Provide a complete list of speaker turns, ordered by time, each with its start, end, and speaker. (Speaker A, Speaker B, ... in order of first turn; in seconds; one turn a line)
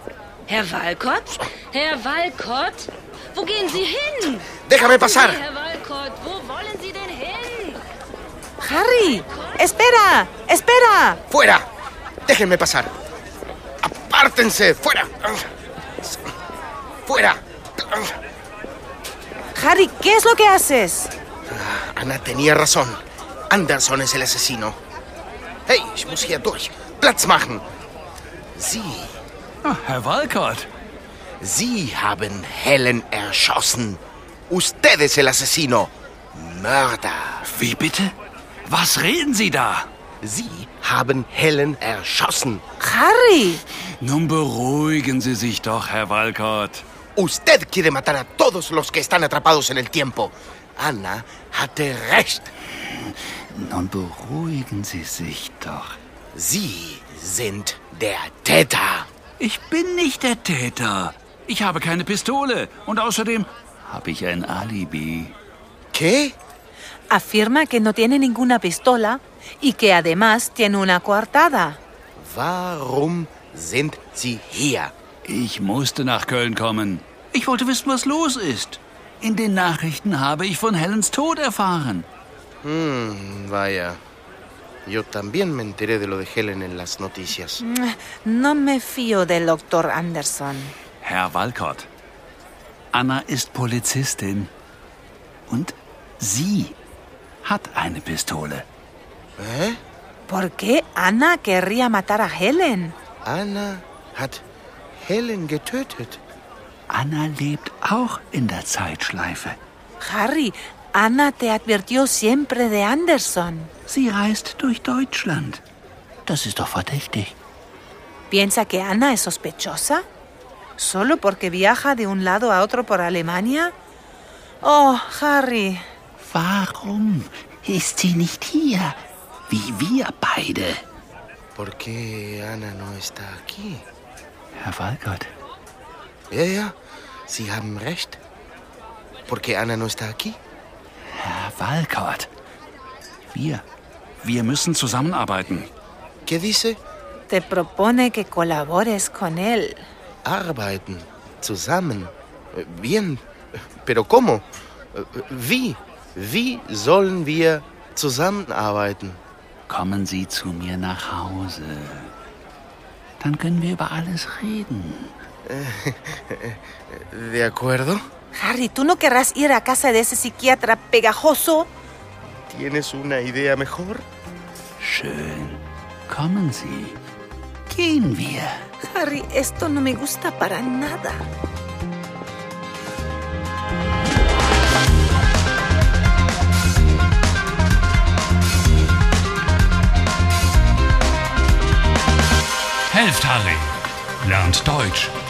Speaker A: 0.5-7.8
Speaker B: 4.7-5.4
Speaker C: 8.6-11.2
Speaker B: 11.3-11.7
Speaker B: 12.3-12.9
Speaker B: 13.8-15.5
Speaker B: 17.1-18.2
Speaker C: 19.5-21.1
Speaker B: 21.5-24.8
Speaker B: 25.7-27.6
Speaker B: 28.6-29.2
Speaker D: 29.6-30.7
Speaker B: 31.4-37.4
Speaker D: 37.5-38.1
Speaker D: 38.7-39.9
Speaker B: 40.2-42.6
Speaker C: 42.8-43.6
Speaker D: 44.0-46.8
Speaker B: 47.2-52.5
Speaker D: 52.9-56.0
Speaker B: 56.3-59.1
Speaker D: 59.4-65.3
Speaker B: 65.9-66.3
Speaker C: 67.1-71.8
Speaker B: 72.2-74.9
Speaker D: 75.2-82.1
Speaker B: 82.6-84.0
Speaker B: 84.9-87.6
Speaker C: 87.6-90.7
Speaker D: 91.0-91.9
Speaker D: 92.9-94.5
Speaker D: 95.5-96.8
Speaker D: 97.4-98.7
Speaker B: 99.4-99.8
Speaker C: 100.3-103.0
Speaker B: 103.2-104.4
Speaker B: 105.0-106.2
Speaker D: 106.9-109.6
Speaker C: 110.0-113.7
Speaker D: 113.9-115.6
Speaker D: 116.3-117.3
Speaker C: 118.3-120.1
Speaker C: 120.8-123.8
Speaker C: 124.6-125.8
Speaker D: 126.2-130.8
Speaker B: 131.6-133.8
Speaker D: 134.6-135.3
Speaker B: 136.3-136.8
Speaker B: 137.3-138.2
Speaker B: 139.3-140.4
Speaker D: 141.1-142.3
Speaker D: 143.3-143.6
Speaker D: 144.2-145.7
Speaker B: 146.3-146.8
Speaker C: 147.3-149.8
Speaker B: 150.2-153.2
Speaker B: 153.8-159.2
Speaker D: 159.7-162.1
Speaker D: 163.2-165.1
Speaker B: 165.5-168.0
Speaker C: 168.3-171.7
Speaker B: 172.5-174.1
Speaker D: 174.8-177.0
Speaker D: 177.7-178.7
Speaker C: 178.8-181.3
Speaker D: 192.9-193.7
Speaker D: 194.2-195.2